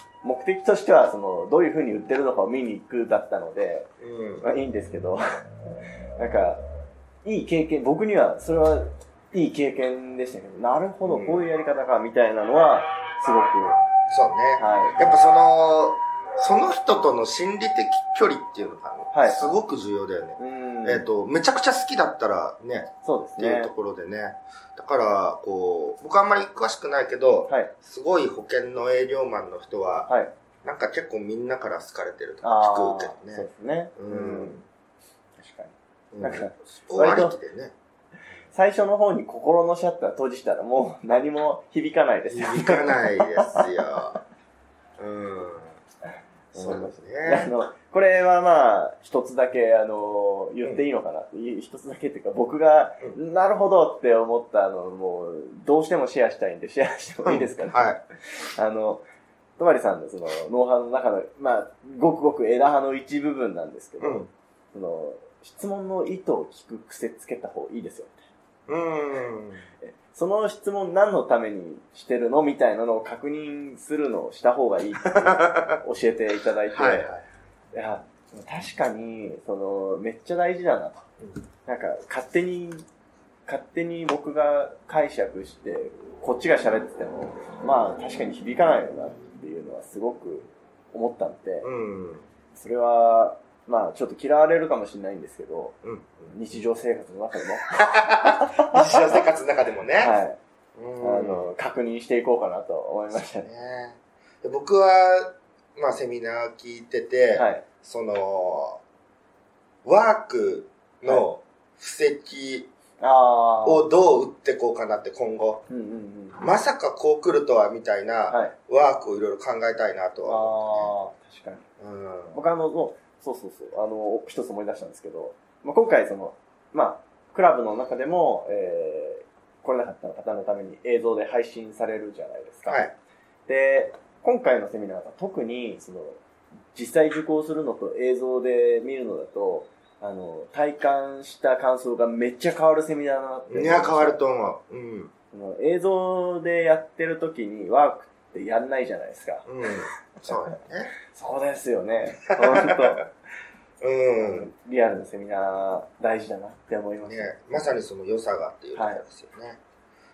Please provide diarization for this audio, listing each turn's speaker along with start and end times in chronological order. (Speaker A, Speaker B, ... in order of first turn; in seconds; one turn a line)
Speaker A: 0.2-5.2
Speaker B: 4.0-4.4
Speaker A: 6.2-6.6
Speaker A: 7.2-13.8
Speaker B: 11.0-11.4
Speaker B: 14.1-30.1
Speaker A: 14.6-15.0
Speaker A: 19.1-19.5
Speaker A: 20.4-21.1
Speaker A: 23.0-23.7
Speaker B: 30.6-34.6
Speaker A: 32.4-34.6
Speaker A: 35.4-37.4
Speaker B: 36.1-37.7
Speaker A: 38.5-43.6
Speaker B: 42.3-44.2
Speaker B: 45.0-45.7
Speaker A: 46.5-59.0
Speaker B: 46.5-47.5
Speaker B: 57.2-58.0
Speaker A: 59.6-68.2
Speaker B: 64.0-64.3
Speaker B: 68.7-69.6
Speaker A: 69.9-77.1
Speaker B: 75.0-75.8
Speaker B: 76.7-77.2
Speaker A: 77.7-81.0
Speaker A: 81.7-82.8
Speaker A: 83.5-91.7
Speaker B: 91.6-92.2
Speaker A: 92.5-95.8
Speaker B: 95.8-96.3
Speaker A: 96.3-98.8
Speaker B: 97.7-100.1
Speaker A: 100.0-100.4
Speaker B: 100.7-101.5
Speaker A: 101.0-103.5
Speaker B: 103.1-108.8
Speaker A: 107.3-107.6
Speaker B: 109.8-112.7
Speaker A: 113.0-113.8
Speaker B: 113.6-115.6
Speaker A: 115.7-116.4
Speaker B: 116.4-120.9
Speaker A: 118.3-118.5
Speaker A: 120.2-121.6
Speaker B: 121.8-122.4
Speaker A: 122.3-132.8
Speaker B: 132.7-132.9
Speaker A: 133.5-136.2
Speaker A: 136.7-144.2
Speaker B: 143.5-145.1
Speaker A: 145.3-149.4
Speaker B: 149.4-150.9
Speaker A: 151.1-153.1
Speaker B: 152.4-152.9
Speaker B: 153.8-154.5
Speaker A: 154.2-157.3
Speaker B: 157.1-159.6
Speaker A: 158.7-159.0